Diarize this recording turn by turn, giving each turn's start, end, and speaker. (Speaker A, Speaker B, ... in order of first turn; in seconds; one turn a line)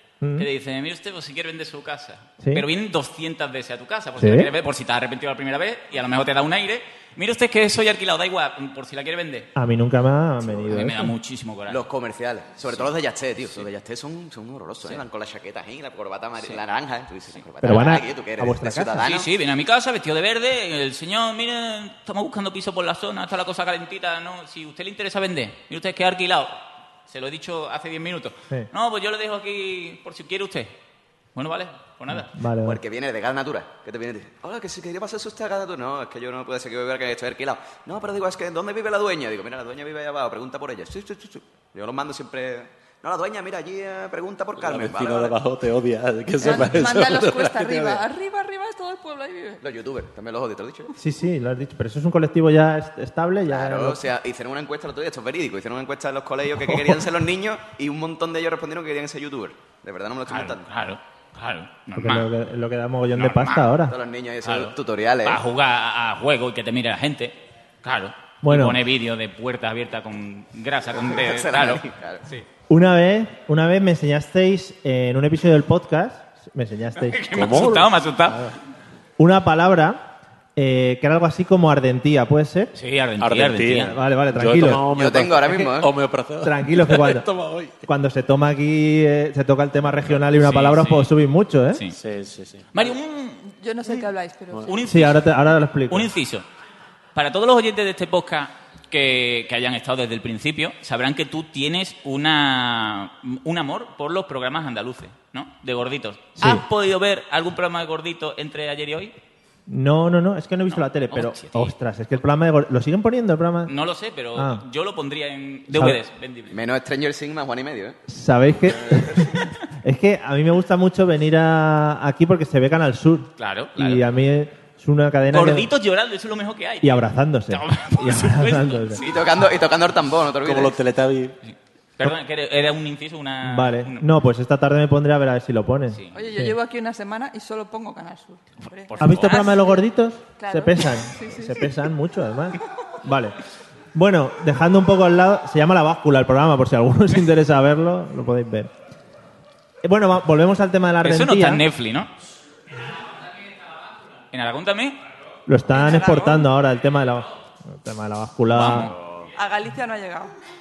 Speaker A: 0.2-0.5
Speaker B: 0.4-9.5
Speaker A: 2.4-2.6
Speaker A: 4.2-4.5
Speaker A: 9.5-11.1
Speaker B: 10.7-11.8
Speaker C: 11.7-19.3
Speaker A: 17.6-19.0
Speaker B: 19.0-30.7
Speaker B: 31.3-32.3
Speaker A: 32.1-32.8
Speaker C: 32.6-45.4
Speaker D: 44.6-48.0
Speaker E: 46.4-49.6
Speaker C: 49.6-50.9
Speaker A: 51.0-54.0
Speaker C: 53.5-60.7
Speaker A: 56.5-57.0
Speaker B: 60.3-62.3
Speaker A: 61.9-63.9
Speaker B: 63.2-63.6
Speaker C: 63.9-65.4
Speaker D: 64.4-64.7
Speaker B: 65.2-72.4
Speaker A: 68.4-68.8
Speaker C: 70.9-72.3
Speaker A: 72.7-78.5
Speaker B: 77.0-78.5
Speaker D: 77.3-77.9
Speaker A: 79.2-82.7
Speaker B: 82.7-84.0
Speaker D: 83.2-87.7
Speaker A: 83.7-84.8
Speaker C: 84.9-85.9
Speaker A: 86.4-87.3
Speaker A: 87.8-91.8
Speaker B: 90.4-91.1
Speaker D: 91.9-92.9
Speaker B: 92.7-93.4
Speaker E: 93.5-94.9
Speaker B: 94.7-95.2
Speaker A: 94.9-96.1
Speaker B: 95.9-96.4
Speaker B: 97.1-109.1
Speaker A: 106.4-106.6
Speaker A: 109.7-113.7
Speaker B: 110.7-111.7
Speaker B: 113.7-116.5
Speaker A: 114.3-114.6
Speaker A: 115.7-116.0
Speaker C: 116.5-118.0
Speaker A: 118.1-125.7
Speaker B: 123.4-124.0
Speaker B: 125.3-129.0
Speaker A: 126.8-129.0
Speaker C: 129.0-130.8
Speaker D: 130.4-131.3
Speaker B: 131.4-134.0
Speaker A: 133.4-136.5
Speaker B: 135.9-136.2
Speaker E: 136.1-139.8
Speaker B: 138.7-139.6
Speaker A: 139.0-143.3
Speaker E: 140.3-141.8
Speaker A: 143.9-148.7
Speaker A: 149.8-151.6
Speaker B: 151.0-152.1
Speaker B: 154.3-155.0
Speaker A: 155.5-158.9
Speaker E: 155.7-156.5
Speaker B: 158.5-158.9
Speaker E: 159.3-160.3